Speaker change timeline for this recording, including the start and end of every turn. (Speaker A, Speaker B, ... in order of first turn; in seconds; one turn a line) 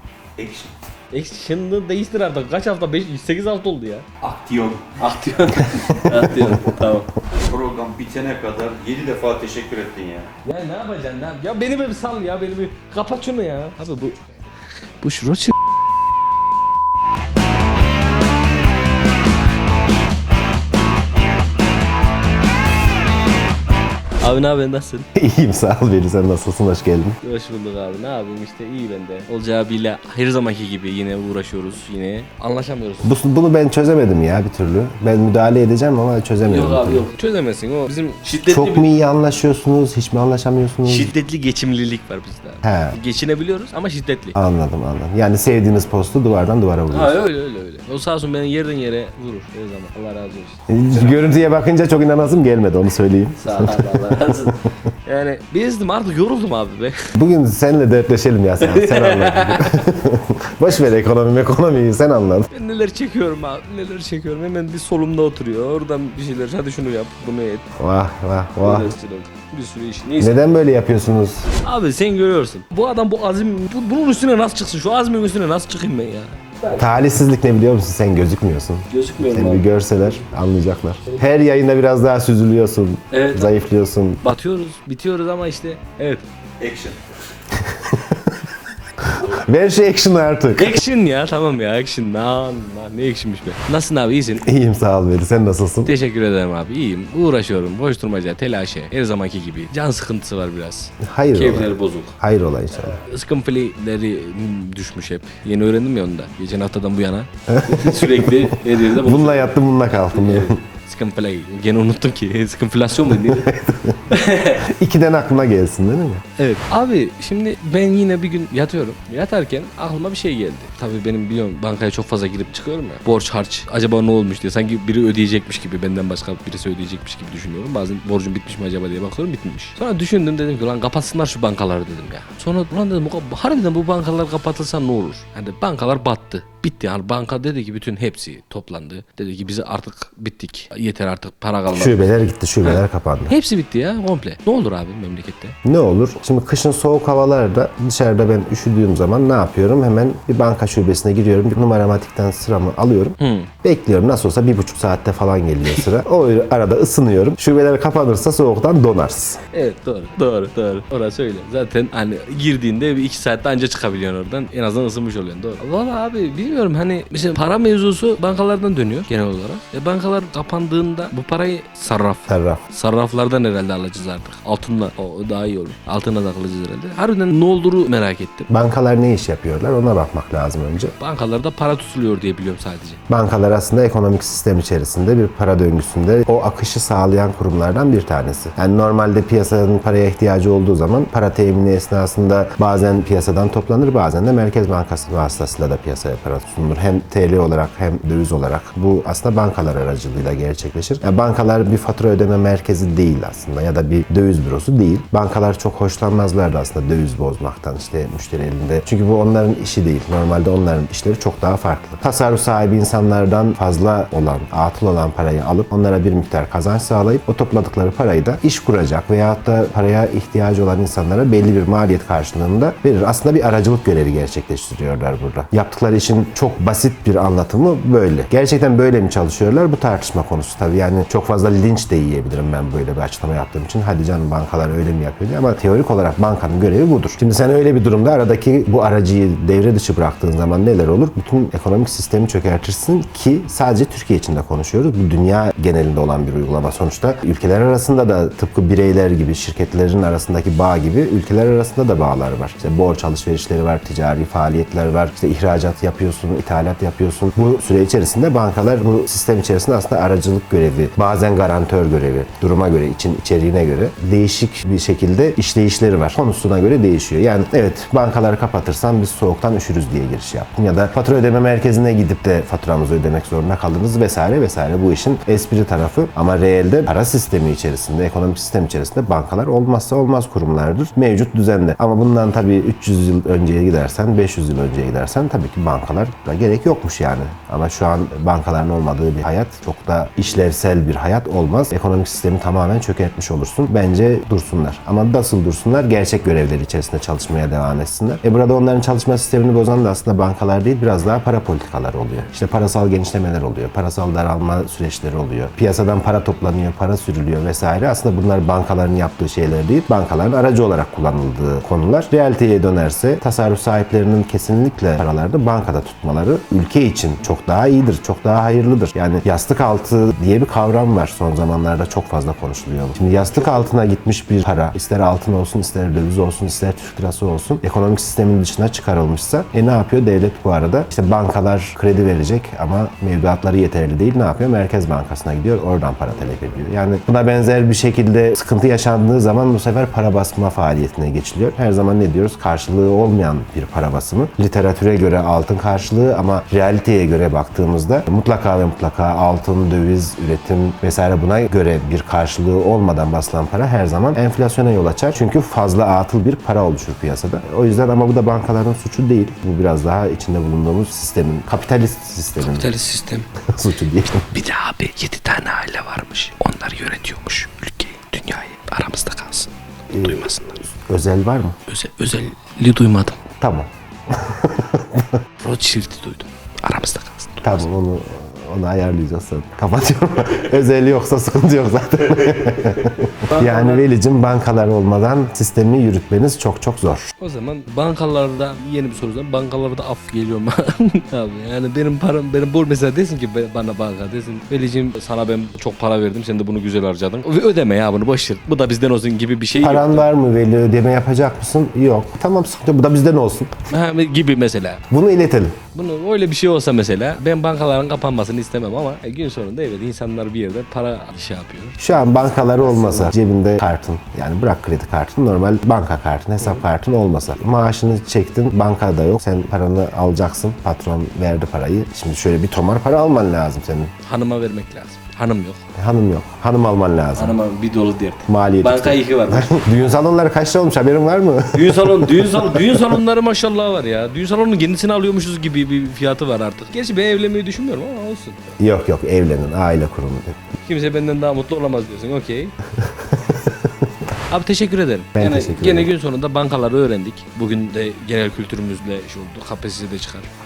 Speaker A: 0.4-0.7
Speaker B: 1.1-4.1
Speaker A: 4.2-5.0
Speaker B: 5.0-7.1
Speaker C: 5.7-6.7
Speaker A: 7.3-10.3
Speaker B: 10.4-14.2
Speaker B: 15.0-15.6
Speaker B: 24.2-25.1
Speaker C: 25.1-27.2
Speaker B: 27.2-33.1
Speaker C: 33.0-37.1
Speaker B: 36.5-38.9
Speaker C: 38.3-41.1
Speaker B: 40.9-44.4
Speaker C: 42.6-43.0
Speaker C: 44.4-47.2
Speaker B: 46.9-51.2
Speaker C: 50.7-54.7
Speaker B: 53.4-57.1
Speaker C: 57.1-62.5
Speaker B: 58.6-59.9
Speaker B: 62.5-67.7
Speaker C: 67.8-68.9
Speaker B: 68.6-70.5
Speaker C: 70.2-71.5
Speaker B: 71.6-76.8
Speaker C: 76.7-84.2
Speaker B: 78.9-80.0
Speaker B: 83.1-83.6
Speaker B: 84.2-86.2
Speaker A: 86.6-87.0
Speaker C: 87.6-88.4
Speaker C: 89.0-90.8
Speaker B: 90.5-94.5
Speaker C: 94.4-96.0
Speaker B: 95.8-102.2
Speaker C: 101.0-103.0
Speaker B: 102.8-113.5
Speaker C: 107.5-110.6
Speaker C: 113.1-116.2
Speaker B: 114.1-114.7
Speaker B: 116.4-142.1
Speaker C: 141.7-143.3
Speaker B: 142.6-145.6
Speaker C: 145.7-159.4
Speaker B: 153.2-153.5
Speaker B: 159.5-178.5
Speaker C: 172.3-172.6
Speaker C: 178.5-180.9
Speaker B: 181.0-183.0
Speaker C: 183.1-362.7
Speaker B: 362.4-363.3
Speaker C: 363.5-364.3
Speaker B: 364.2-370.7
Speaker C: 369.9-371.6
Speaker B: 371.7-373.2
Speaker C: 373.4-375.2
Speaker B: 375.4-377.6
Speaker C: 377.4-387.1
Speaker B: 383.3-383.8
Speaker B: 387.2-400.1
Speaker C: 399.6-403.5
Speaker B: 403.7-404.8
Speaker C: 404.9-405.6
Speaker B: 405.7-413.1
Speaker C: 411.8-423.9
Speaker B: 424.0-425.6
Speaker C: 425.8-427.4
Speaker B: 427.2-429.6
Speaker C: 428.3-432.9
Speaker B: 431.5-438.4
Speaker C: 438.6-440.4
Speaker B: 440.6-442.6
Speaker C: 442.8-443.8
Speaker B: 444.3-450.3
Speaker C: 445.1-445.9